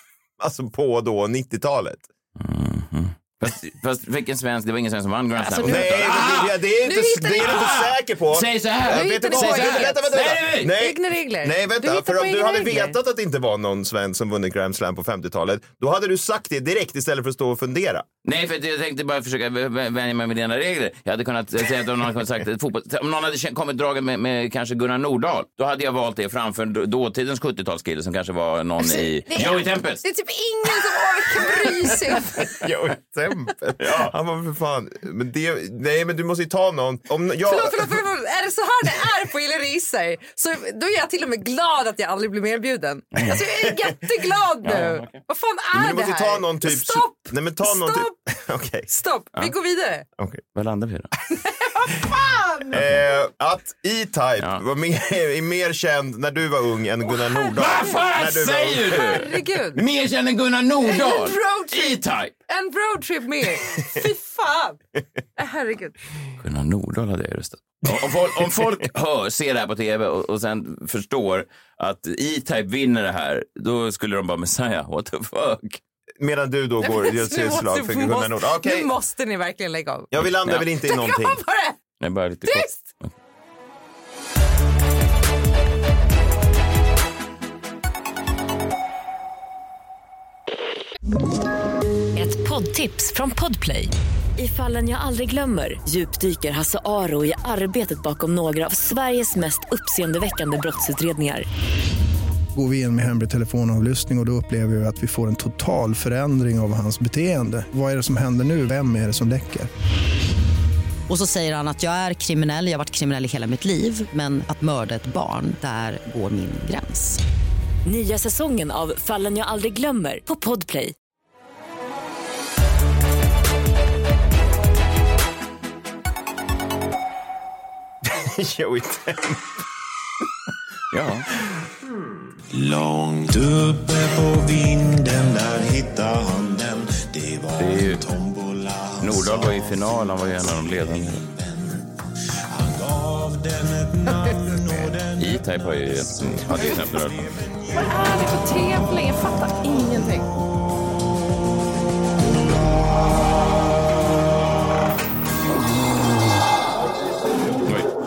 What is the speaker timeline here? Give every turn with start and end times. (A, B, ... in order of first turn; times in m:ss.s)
0:00.4-0:02.1 A
0:02.4-0:06.5 B
0:05.4-0:07.8 C
0:05.6-0:18.0 A
0:07.4-0:10.7 B
0:08.9-0:13.0 C
0:18.2-0:30.0 B
0:28.8-0:32.6 C
0:32.5-0:38.0 A
0:33.8-0:34.1 B
0:37.5-0:48.1 C
0:43.1-0:43.4 B
0:43.5-0:43.9 A
0:44.6-0:45.2 B
0:45.7-0:48.9 A
0:48.9-0:50.1 C
0:50.5-0:51.1 B
0:51.4-0:52.6 C
0:52.7-0:59.2 A
0:57.5-1:02.3 B
0:58.9-0:59.8 C
1:00.8-1:04.8 C
1:05.4-1:06.0 C
1:06.4-1:15.8 B
1:16.2-1:18.9 A
1:16.8-1:20.1 C
1:20.1-1:21.4 A
1:20.7-1:21.8 C
1:22.0-1:23.1 B
1:22.4-1:22.8 C
1:32.2-1:41.4 D
1:42.6-1:49.7 E
1:51.1-1:57.2 F
1:57.8-2:00.9 D
2:08.0-2:09.4 A
2:10.9-2:11.3 B
2:12.5-2:22.0 G
2:17.6-2:18.0 B
2:19.0-2:21.2 B
2:22.5-2:28.9 G
2:24.2-2:24.9 C
2:25.2-2:27.4 B
2:27.7-2:30.3 C
2:37.7-2:37.9 B